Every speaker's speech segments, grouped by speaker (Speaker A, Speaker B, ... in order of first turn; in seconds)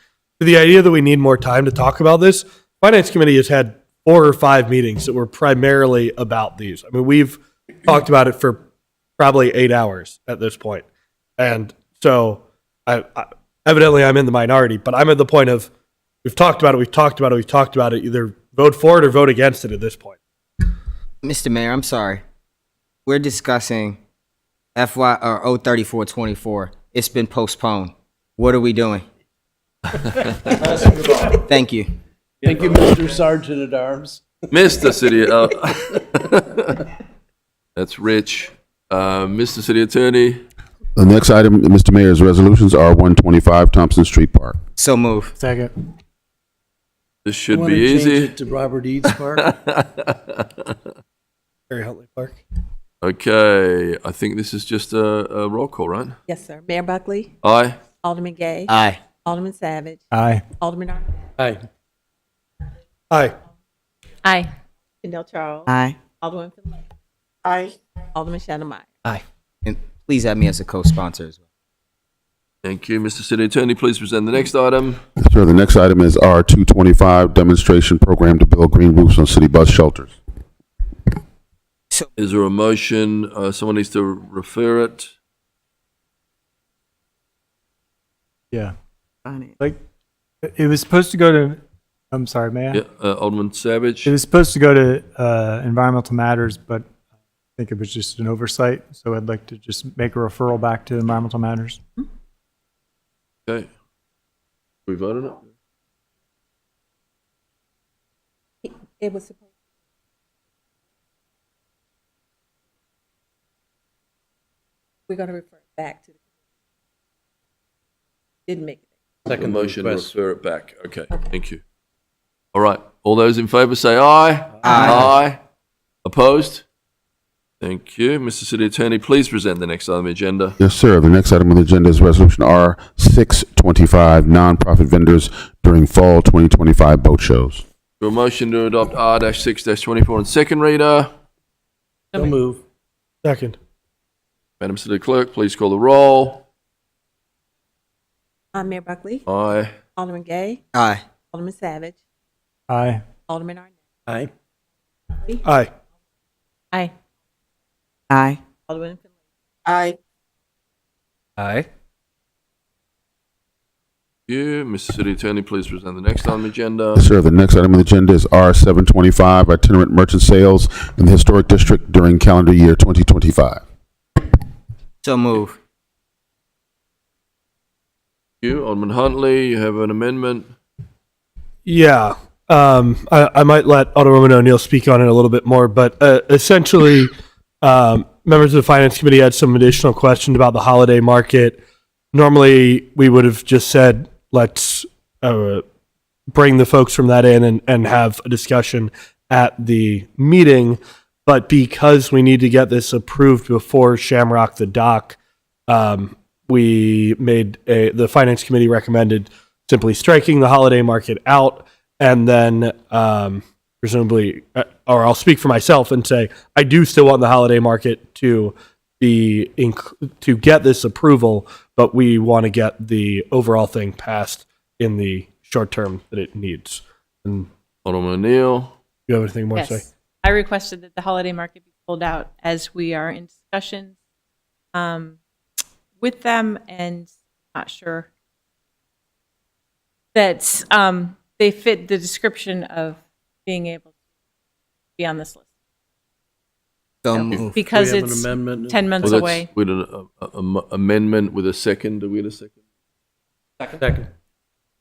Speaker A: 0.4-8.6, 9.2-10.8, 11.4-15.7, 16.2-20.2, 51.7-52.4, 143.2-143.6, 155.4-155.7, 181.7-187.1, 187.6-191.6, 192.1-195.6, 196.3-227.5, 229.1-229.8
Speaker B: 21.2-22.2, 23.1-24.0, 24.7-29.1, 31.3-31.9, 44.8-45.3, 58.7-59.0, 65.7-66.0, 69.6-71.4, 124.7-125.1, 150.7-151.0, 158.1-158.4, 175.0-175.6, 247.0-247.7
Speaker C: 30.7-31.1, 32.4-34.2, 47.5-49.5, 61.4-61.6, 119.2-120.1, 142.2-142.6, 247.7-249.2, 253.7-254.1
Speaker D: 34.5-36.9, 37.7-40.4, 47.2-48.4, 49.0-50.7, 53.0-56.1, 57.4-57.8, 72.6-75.0, 82.2-85.1, 92.7-94.1, 104.9-105.5, 119.3-121.6, 122.5-125.4, 126.0-126.6, 127.6-130.6, 138.0-141.1, 144.6-146.4, 149.3-149.7, 164.3-167.0, 178.4-180.5, 227.8-228.7, 249.0-252.6
Speaker E: 41.0-44.6, 75.2-80.1, 130.6-137.6, 166.9-173.6
Speaker F: 45.4-45.7, 60.1-60.4, 90.6-91.6, 92.1-92.8, 94.1-96.8, 97.6-101.8, 152.7-153.0
Speaker G: 56.3-57.3, 58.0-60.0, 60.5-61.2, 65.0-66.8, 67.4-69.2, 108.6-109.4, 115.1-116.1, 118.5-118.8, 124.7-125.1, 148.5-149.2, 149.9-150.6, 151.2-151.9, 153.3-153.7, 155.1-155.4, 158.6-159.1, 159.7-159.9
Speaker H: 64.2-64.5, 229.5-233.9, 234.7-235.2, 236.0-238.1, 240.1-243.9, 245.0-245.5, 247.1-249.5